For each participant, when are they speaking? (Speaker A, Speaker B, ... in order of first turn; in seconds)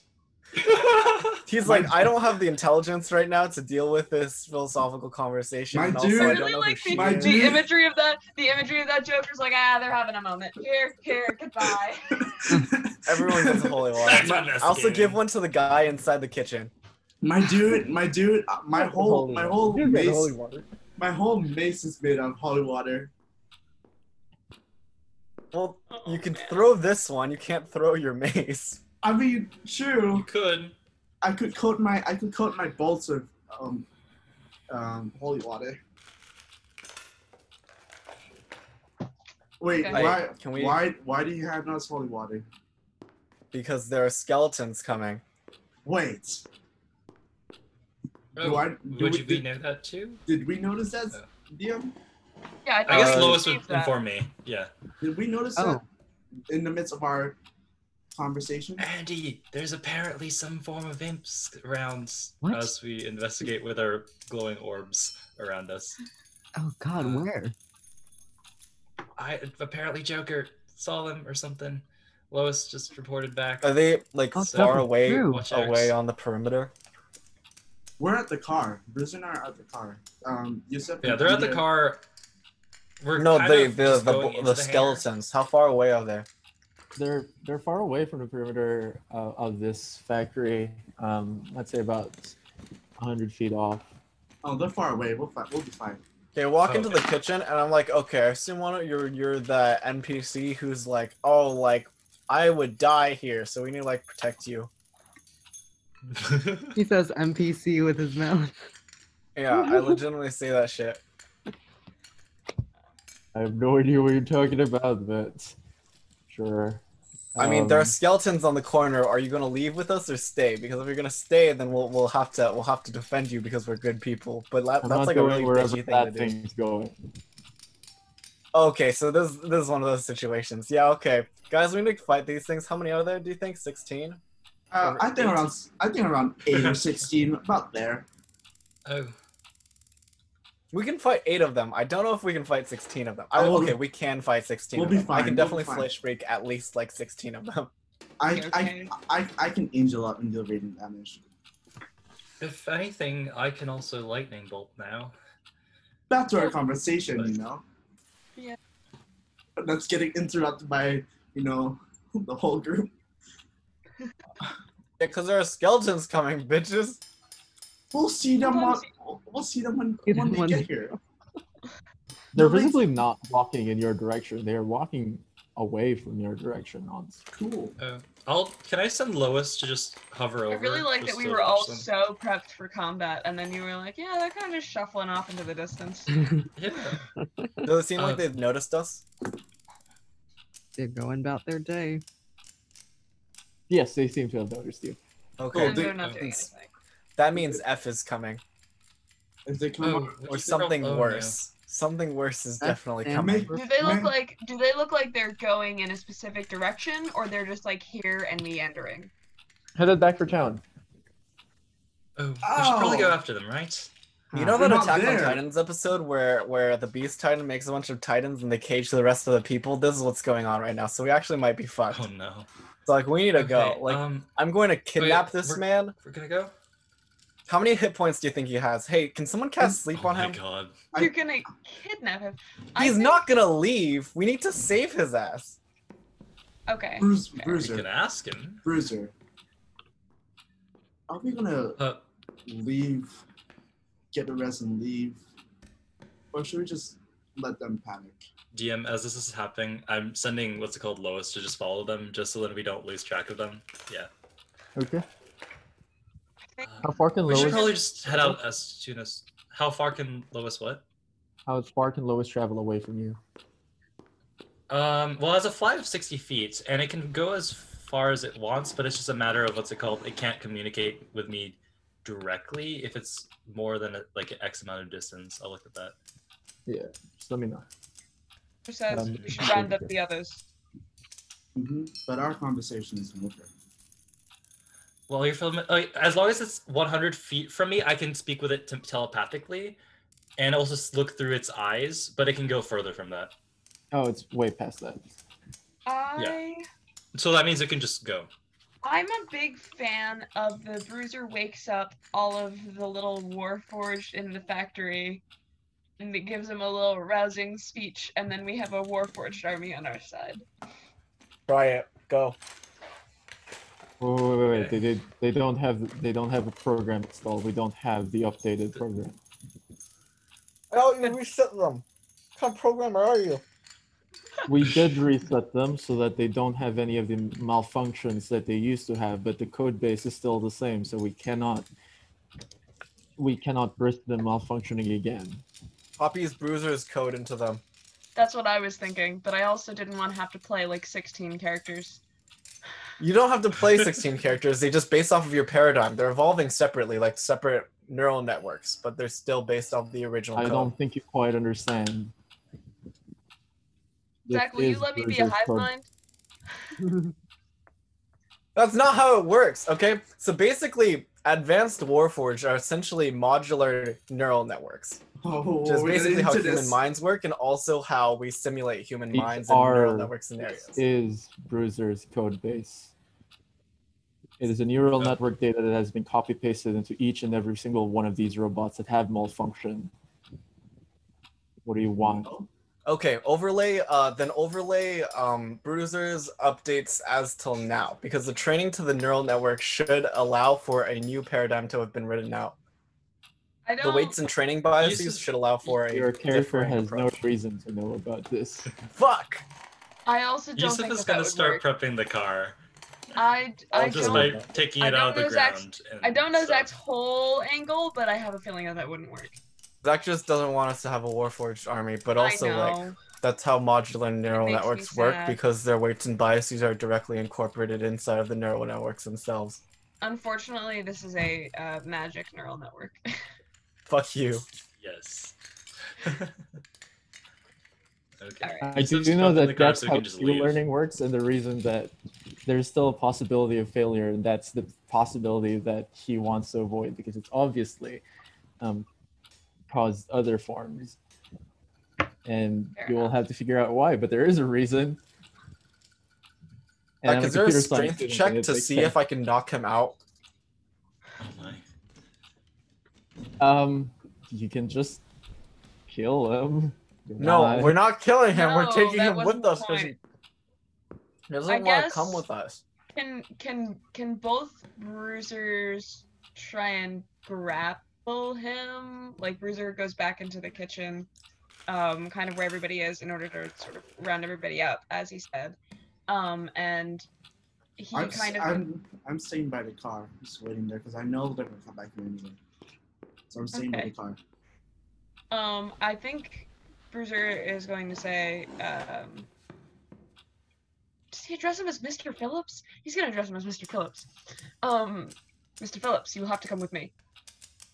Speaker A: 0.6-1.4, 14.0-15.2, 30.1-30.8, 48.4-50.2, 52.9-54.7, 58.8-66.0, 67.0-67.3, 69.2-73.8, 74.4-76.0, 81.0-82.0, 83.0-85.0, 96.7-97.0, 106.1-106.7, 138.9-139.2, 152.4-155.2, 177.8-181.9, 186.6-187.0, 188.0-188.3, 195.5-196.4, 199.8-201.4, 212.2-213.9, 221.9-222.5, 223.3-224.3, 225.0-226.5, 229.9-230.8, 237.6-238.7, 241.8-242.0, 248.5-254.1, 256.6-260.8, 264.7-276.0, 279.1-279.5, 285.1-289.8, 290.4-293.3, 297.1-298.3, 314.5-314.8, 324.6-324.9, 394.8-395.3, 400.6-402.6, 403.7-406.7, 424.8-425.4, 426.0-426.4, 428.2-430.6, 451.2-451.6
Speaker B: 1.5-7.6, 13.1-16.7, 25.5-28.8, 39.9-40.9, 43.5-45.2, 52.9-53.4, 73.6-76.7, 83.2-86.3, 96.3-104.7, 109.4-111.0, 117.4-126.3, 128.5-134.2, 134.8-135.5, 140.7-147.7, 165.0-167.0, 187.6-189.1, 195.4-195.8, 197.2-198.4, 200.3-203.5, 214.3-222.1, 222.9-225.9, 227.5-230.4, 232.8-235.6, 311.5-312.4, 320.7-321.9, 322.4-323.4, 336.0-337.6, 343.0-350.7, 358.6-365.0, 365.6-370.8, 382.9-392.6, 393.8-397.2, 398.9-399.4, 409.8-419.6, 423.9-424.4, 447.1-450.0, 457.2-460.0, 461.3-462.6
Speaker C: 1.6-2.0, 5.7-7.7, 12.2-14.5, 17.2-20.4, 21.0-23.1, 29.0-30.3, 31.2-33.9, 34.7-35.8, 39.6-42.5, 45.9-46.5, 48.4-49.5, 50.3-52.0, 55.0-55.8, 56.5-57.4, 58.1-58.8, 78.0-81.6, 94.4-96.0, 134.7-138.1, 143.3-143.8, 144.8-145.9, 148.2-151.2, 156.1-157.6, 159.6-162.9, 167.9-170.9, 172.3-172.8, 177.3-177.8, 195.6-196.3, 199.5-200.2, 203.1-204.2, 212.4-213.2, 214.6-215.4, 237.0-237.9, 238.6-239.1, 241.1-241.8, 242.5-243.2, 244.1-245.2, 246.3-248.3, 281.6-283.5, 365.2-366.8, 382.0-382.5, 477.9-482.4, 483.3-484.2
Speaker D: 6.1-12.2, 25.9-26.6, 39.7-40.1, 52.6-53.9, 148.3-148.9, 168.4-168.9, 180.5-186.1, 195.6-196.7, 203.5-209.1, 230.9-233.3, 236.7-237.6, 257.2-257.8, 278.7-280.4, 295.9-296.6, 298.8-305.2, 306.0-310.4, 338.2-342.0, 354.3-355.9, 393.7-394.2, 400.1-401.6, 403.1-409.4, 412.2-413.0, 414.3-415.4, 420.0-423.1, 428.4-428.7, 442.8-443.1, 458.3-459.9, 461.5-462.2, 462.9-471.1, 471.7-475.6, 476.1-477.1, 477.8-478.6, 483.5-483.9, 485.3-489.3, 491.1-494.1, 494.6-496.9
Speaker E: 18.8-20.7, 87.0-92.4, 93.0-93.9, 113.3-115.5, 116.3-116.8, 117.3-118.0, 124.8-126.9, 172.3-177.2, 193.7-195.0, 209.8-210.6, 254.8-255.0, 256.8-258.4, 261.5-263.2, 276.7-277.7, 278.9-279.9, 293.9-295.2, 314.0-319.2, 324.5-331.7, 333.2-335.4, 350.4-352.1, 354.3-355.7, 369.1-370.1, 370.8-372.9, 374.4-379.9, 381.6-382.3, 395.9-398.7, 403.9-404.5, 428.6-431.9, 432.5-438.0, 438.6-438.9, 439.7-441.0, 442.2-445.0, 447.0-449.0, 453.4-455.0, 455.9-457.8
Speaker F: 55.6-55.8, 62.4-62.7, 66.6-67.6, 74.3-75.4, 106.8-108.6, 109.5-110.0, 170.1-171.0, 190.8-192.0, 202.6-203.4, 214.3-214.7